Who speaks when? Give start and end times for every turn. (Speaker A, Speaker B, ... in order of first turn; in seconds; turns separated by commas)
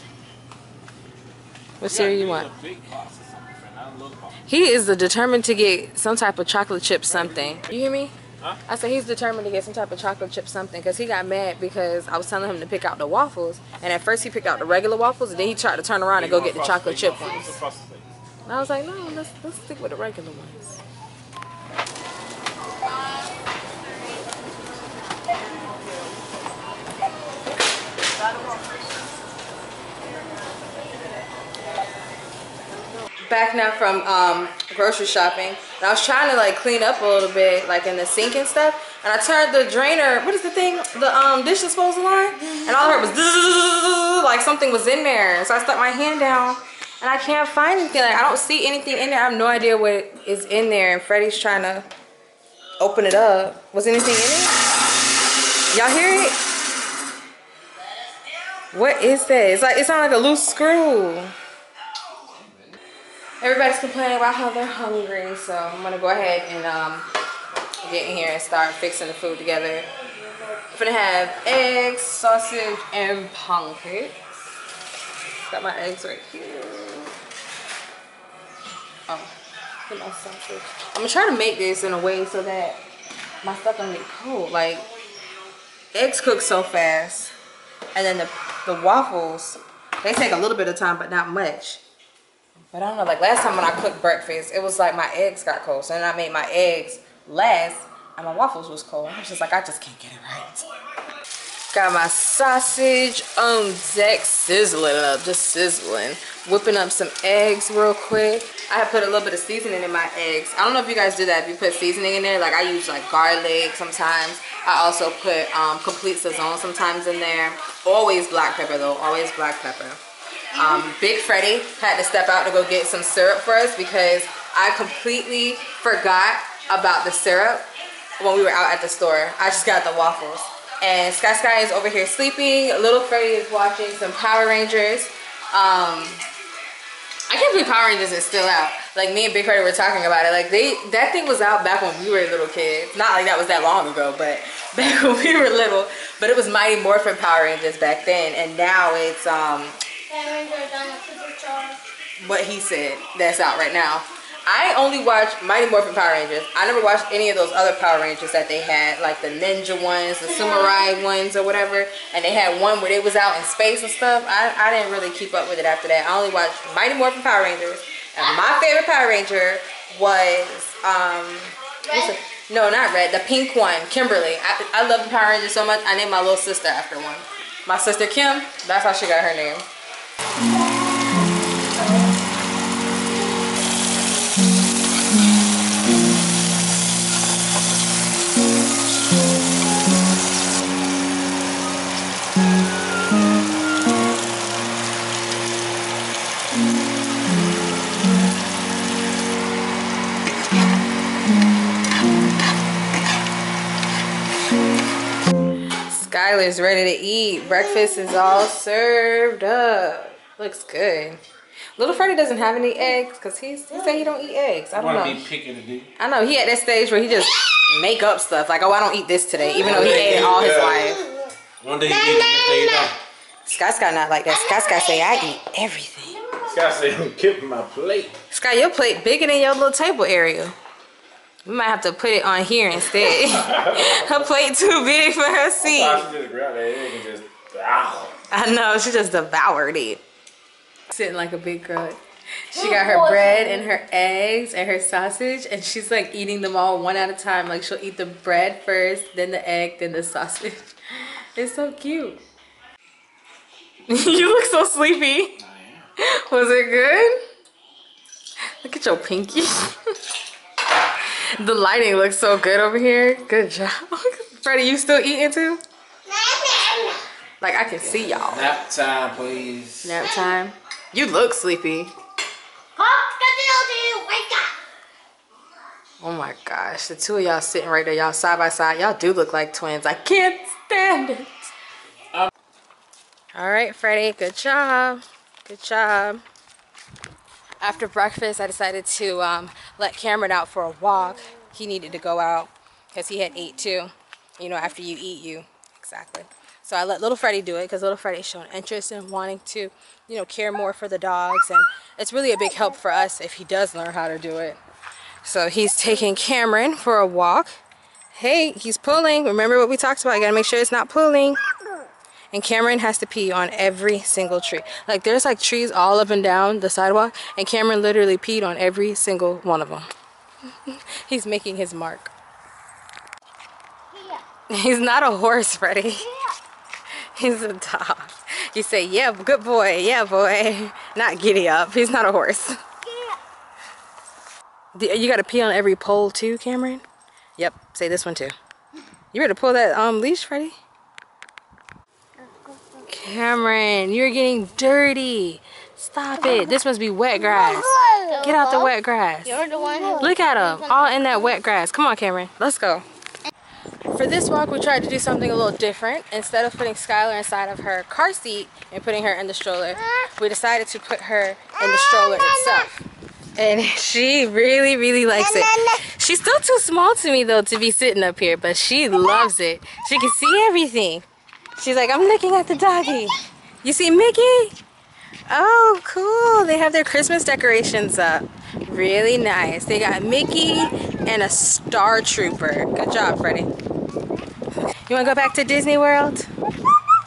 Speaker A: 1.8-2.5, Speaker B: 1.8-4.3, Speaker A: 4.5-8.1, Speaker B: 7.1-7.7, Speaker A: 8.7-17.6, Speaker B: 16.2-18.1, Speaker A: 18.4-20.8, Speaker A: 33.2-51.9, Speaker A: 52.8-54.5, Speaker A: 55.7-56.4, Speaker A: 58.7-61.3, Speaker A: 63.4-67.1, Speaker A: 67.8-69.9, Speaker A: 70.5-74.2, Speaker A: 75.3-77.2, Speaker A: 79.8-82.8, Speaker A: 83.4-84.8, Speaker A: 85.9-87.3, Speaker A: 87.9-91.8, Speaker A: 92.7-100.7, Speaker A: 101.7-120.0, Speaker A: 120.5-127.7, Speaker A: 128.2-136.2, Speaker A: 137.3-149.8, Speaker C: 150.1-151.8, Speaker A: 152.2-179.7, Speaker C: 160.3-160.8, Speaker A: 205.9-211.2, Speaker A: 211.8-215.3, Speaker B: 214.7-215.9, Speaker A: 216.0-221.1, Speaker B: 219.6-220.9, Speaker B: 221.6-222.9, Speaker C: 222.5-222.8, Speaker A: 223.4-226.2, Speaker C: 224.6-225.2, Speaker C: 226.3-226.5, Speaker B: 226.4-228.1, Speaker A: 228.3-230.5, Speaker A: 231.4-236.1, Speaker B: 233.3-234.0, Speaker B: 235.6-238.2, Speaker A: 238.3-240.0, Speaker A: 240.9-242.0, Speaker A: 242.5-252.2, Speaker C: 242.6-243.6, Speaker A: 253.9-255.4, Speaker B: 255.4-255.9, Speaker A: 256.0-257.2, Speaker A: 258.6-259.8, Speaker A: 260.8-265.6, Speaker C: 266.1-267.0, Speaker A: 267.4-268.5, Speaker B: 268.2-269.9, Speaker A: 269.8-271.9, Speaker C: 272.8-274.5, Speaker A: 276.0-281.5, Speaker A: 283.3-286.2, Speaker A: 287.6-304.6, Speaker A: 305.2-307.6, Speaker A: 308.1-311.4, Speaker A: 312.3-319.9, Speaker A: 320.5-322.1, Speaker C: 323.9-324.2, Speaker A: 324.5-326.1, Speaker C: 326.0-326.4, Speaker A: 327.1-332.6, Speaker C: 332.9-333.2, Speaker A: 334.7-336.8, Speaker A: 337.4-338.3, Speaker A: 339.1-340.6, Speaker C: 342.2-342.8, Speaker A: 342.9-349.4, Speaker C: 347.1-348.7, Speaker C: 349.2-351.1, Speaker A: 350.0-352.8, Speaker A: 353.9-362.9, Speaker C: 361.9-362.6, Speaker A: 363.4-374.6, Speaker C: 365.3-365.8, Speaker A: 375.3-383.5, Speaker A: 384.8-386.3